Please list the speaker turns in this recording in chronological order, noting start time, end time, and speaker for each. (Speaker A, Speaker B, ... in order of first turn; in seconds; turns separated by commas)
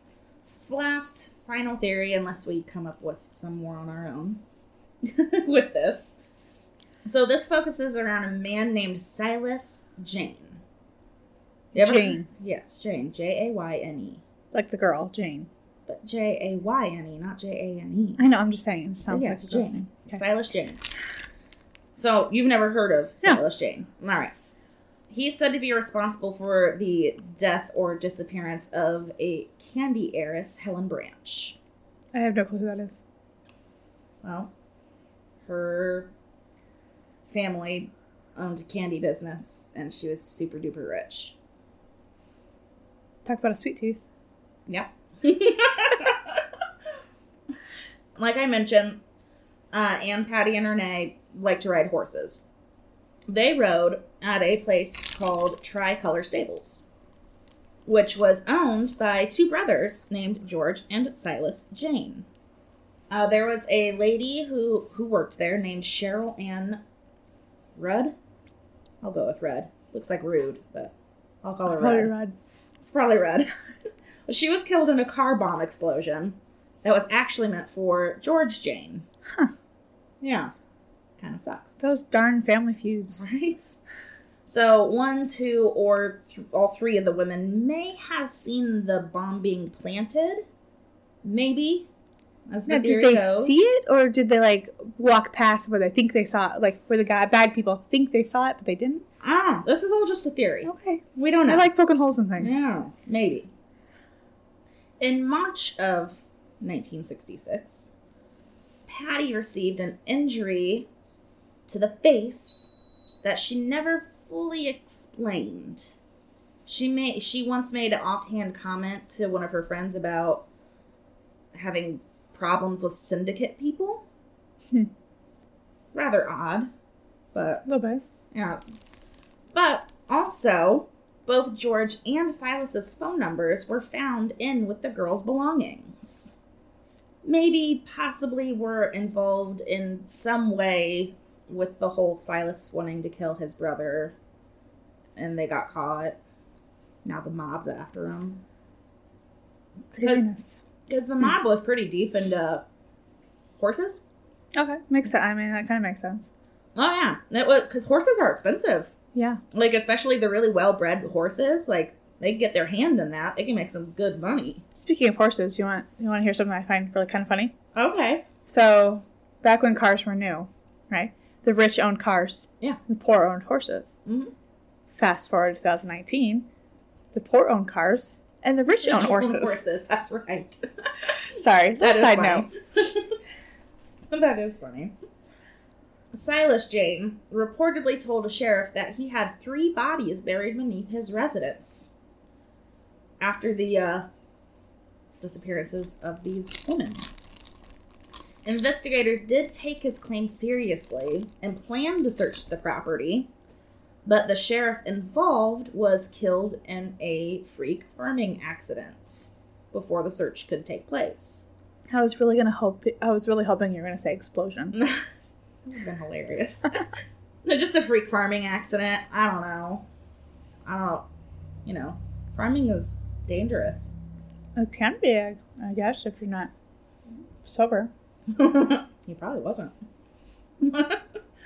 Speaker A: 0.6-4.4, Speaker A: 5.0-6.1, Speaker A: 7.0-10.6, Speaker B: 11.7-12.3, Speaker A: 11.7-14.2, Speaker B: 14.5-15.5, Speaker A: 15.9-18.2, Speaker B: 18.2-20.2, Speaker A: 19.1-20.8, Speaker A: 22.0-24.3, Speaker A: 25.1-31.6, Speaker B: 32.1-33.0, Speaker A: 34.2-34.5, Speaker A: 35.5-36.1, Speaker A: 37.3-41.4, Speaker B: 43.2-44.0, Speaker A: 44.7-46.4, Speaker A: 48.1-49.0, Speaker A: 49.7-52.5, Speaker A: 53.3-56.9, Speaker A: 57.9-62.3, Speaker A: 63.1-66.8, Speaker A: 67.8-68.1, Speaker A: 69.0-72.1, Speaker B: 71.7-72.3, Speaker A: 72.8-73.5, Speaker A: 74.3-79.1, Speaker A: 80.2-80.5, Speaker A: 81.2-81.8, Speaker B: 81.8-83.3, Speaker A: 83.1-83.8, Speaker A: 84.5-90.5, Speaker A: 91.2-91.9, Speaker A: 92.5-93.7, Speaker B: 92.7-99.0, Speaker A: 99.2-101.7, Speaker B: 100.7-102.6, Speaker A: 102.4-103.5, Speaker A: 105.0-107.9, Speaker A: 108.9-110.9, Speaker A: 111.7-112.7, Speaker A: 113.2-116.0, Speaker A: 116.7-120.5, Speaker A: 121.5-124.0, Speaker A: 125.9-126.7, Speaker A: 127.3-127.7, Speaker B: 127.7-128.0, Speaker A: 128.3-128.8, Speaker A: 129.5-136.3, Speaker A: 137.2-144.2, Speaker A: 145.2-146.2, Speaker A: 147.0-148.4, Speaker B: 149.9-150.6, Speaker A: 150.9-152.7, Speaker A: 153.6-154.0, Speaker B: 154.6-156.3, Speaker A: 156.8-158.9, Speaker B: 159.1-159.4, Speaker A: 159.5-164.6, Speaker B: 164.8-167.6, Speaker A: 167.7-168.2, Speaker B: 168.5-174.0, Speaker A: 174.1-174.3, Speaker B: 174.9-176.5, Speaker B: 177.1-179.7, Speaker A: 178.8-180.9, Speaker B: 181.3-182.5, Speaker A: 181.8-183.2, Speaker A: 184.1-184.9, Speaker A: 186.1-191.9, Speaker A: 193.2-194.1, Speaker A: 195.2-197.1, Speaker A: 198.4-203.3, Speaker A: 204.1-211.5, Speaker B: 211.9-214.8, Speaker A: 214.7-215.0, Speaker A: 215.7-216.9, Speaker A: 217.4-219.9, Speaker A: 220.7-221.1, Speaker A: 221.7-223.9, Speaker B: 224.6-226.5, Speaker B: 227.4-227.9, Speaker A: 228.3-229.8, Speaker A: 230.6-231.0